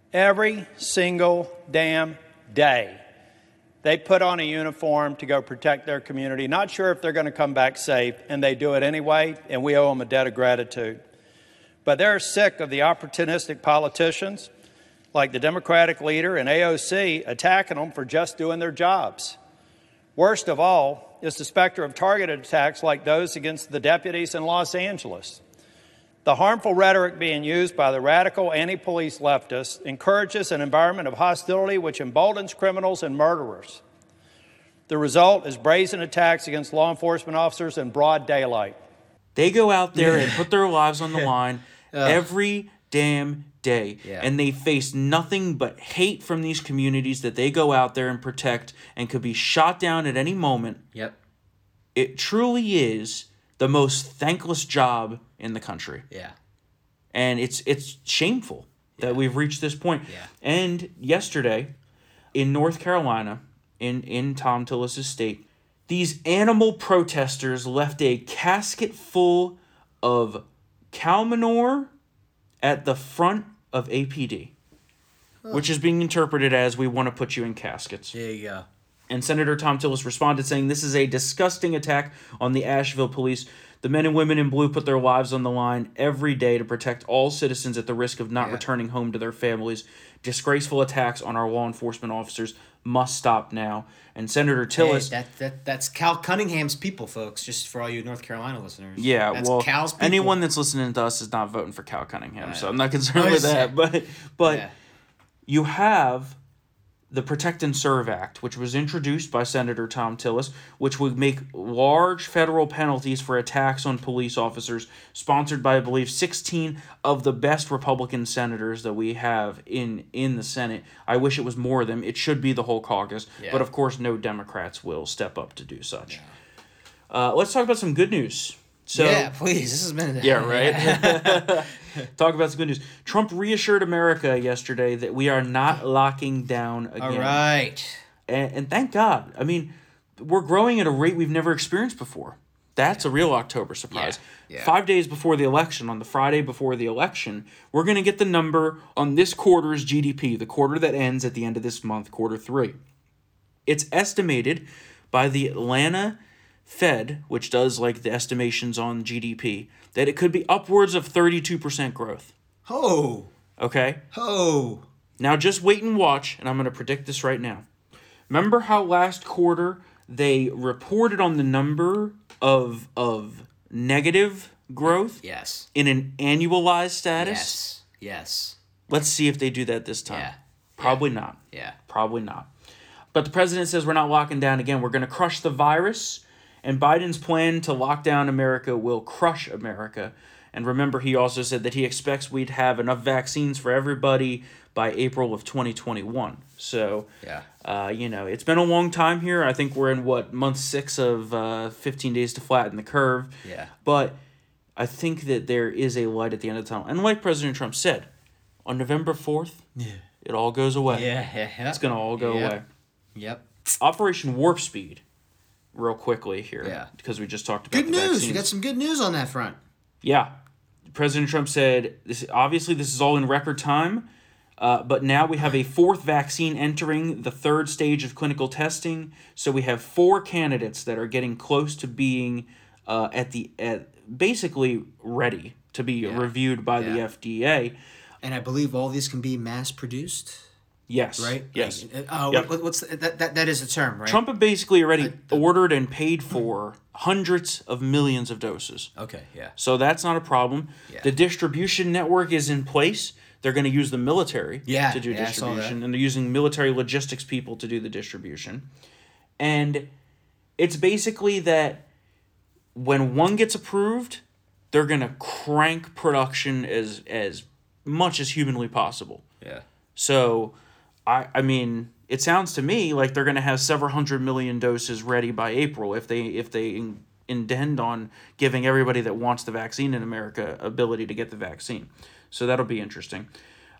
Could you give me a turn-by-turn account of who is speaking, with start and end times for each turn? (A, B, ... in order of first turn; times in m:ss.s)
0:00.1-0:03.0 A
0:03.8-0:11.0 A
0:11.8-0:14.5 A
0:15.1-0:19.4 A
0:20.2-0:25.4 A
0:26.2-0:33.8 A
0:34.9-0:38.8 A
0:39.4-0:50.8 B
0:40.0-0:40.4 C
0:41.9-0:42.2 C
0:44.0-0:44.3 C
0:52.0-0:56.0 B
0:57.1-1:01.7 B
1:02.3-1:11.9 B
1:12.6-1:14.5 B
1:15.5-1:18.2 B
1:18.1-1:18.7 C
1:19.1-1:35.1 B
1:34.8-1:40.4 C
1:39.0-1:44.6 B
1:42.4-1:43.7 C
1:44.4-1:44.7 C
1:45.5-1:46.4 B
1:47.1-2:06.2 B
2:03.4-2:03.7 C
2:07.1-2:09.3 B
2:09.0-2:12.1 C
2:10.2-2:17.5 B
2:17.0-2:18.0 C
2:18.3-2:32.8 B
2:23.9-2:24.7 C
2:33.7-2:42.3 B
2:42.7-2:43.3 C
2:43.6-2:44.0 B
2:44.1-2:44.8 C
2:45.2-2:47.7 B
2:48.3-2:55.2 B
2:55.2-2:55.7 C
2:55.7-2:57.6 B
2:57.2-2:58.6 C
2:58.9-3:02.5 B
3:00.1-3:01.8 C
3:03.1-3:17.1 B
3:17.6-3:23.3 B
3:23.4-3:23.7 C
3:23.8-3:24.2 B
3:24.8-3:28.1 B
3:28.7-3:29.6 B
3:29.8-3:30.0 C
3:30.2-3:31.1 B
3:30.9-3:32.6 C
3:31.7-3:32.6 B
3:33.2-3:33.5 C
3:33.8-3:35.0 B
3:35.7-3:38.5 B
3:36.6-3:36.9 C
3:37.7-3:39.6 C
3:40.0-3:40.3 B
3:40.9-3:44.1 B
3:44.6-3:57.8 B
3:56.0-3:57.0 C
3:58.2-4:00.5 C
4:00.9-4:02.5 B
4:01.2-4:04.2 C
4:04.1-4:08.9 B
4:05.0-4:05.4 C
4:09.0-4:09.5 C
4:09.6-4:18.7 B
4:14.7-4:15.8 C
4:19.4-4:19.9 B
4:20.6-4:21.8 B
4:22.8-4:29.2 B
4:30.0-4:30.6 B
4:31.1-4:43.3 B